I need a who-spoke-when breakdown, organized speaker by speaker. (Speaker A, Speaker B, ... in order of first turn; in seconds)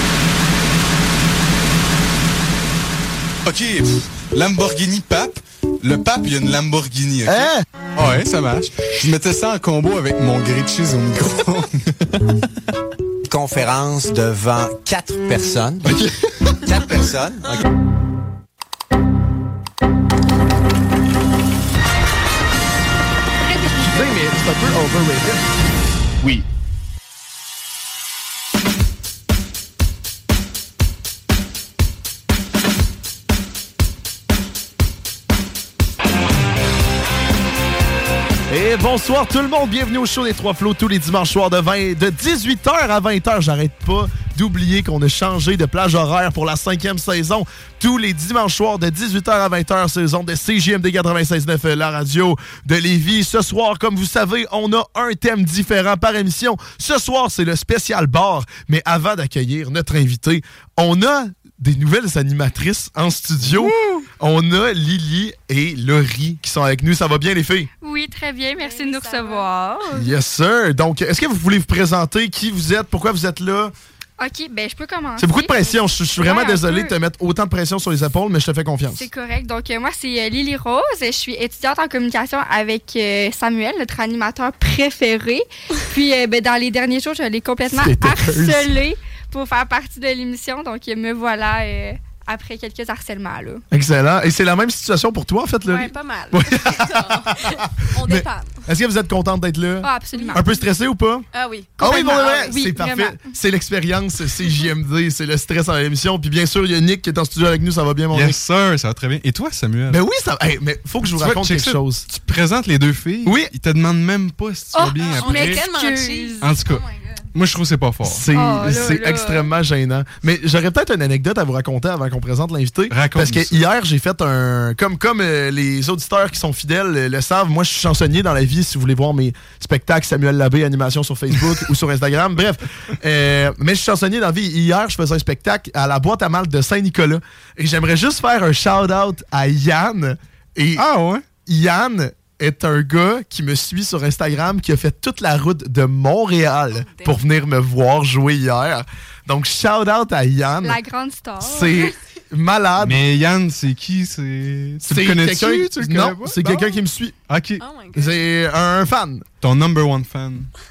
Speaker A: 3.5-12.1, 108.1-110.0, 111.1-115.6, 116.4-116.8, 117.3-118.3, 122.9-123.6, 140.8-141.2, 152.8-156.7, 157.3-157.6, 159.4-160.5
Speaker B: 7.2-7.6, 23.8-25.4, 38.5-67.7, 69.9-73.7, 75.2-79.1, 87.7-88.7, 93.7-101.3, 101.8-108.4, 109.9-112.1, 113.2-113.5, 118.0-140.9, 141.5-150.8, 151.4-153.0, 154.8-157.2, 157.9-159.3
Speaker C: 13.3-16.0, 16.6-17.6
Speaker D: 63.6-64.1, 67.8-70.1, 74.2-77.0, 78.9-93.6, 99.8-100.6, 101.8-103.3, 114.7-116.6, 118.3-119.5, 150.6-151.9
Speaker E: 68.5-69.5, 95.7-98.6, 100.2-100.5, 101.3-102.6, 115.0-117.3, 146.8-147.2, 157.6-158.2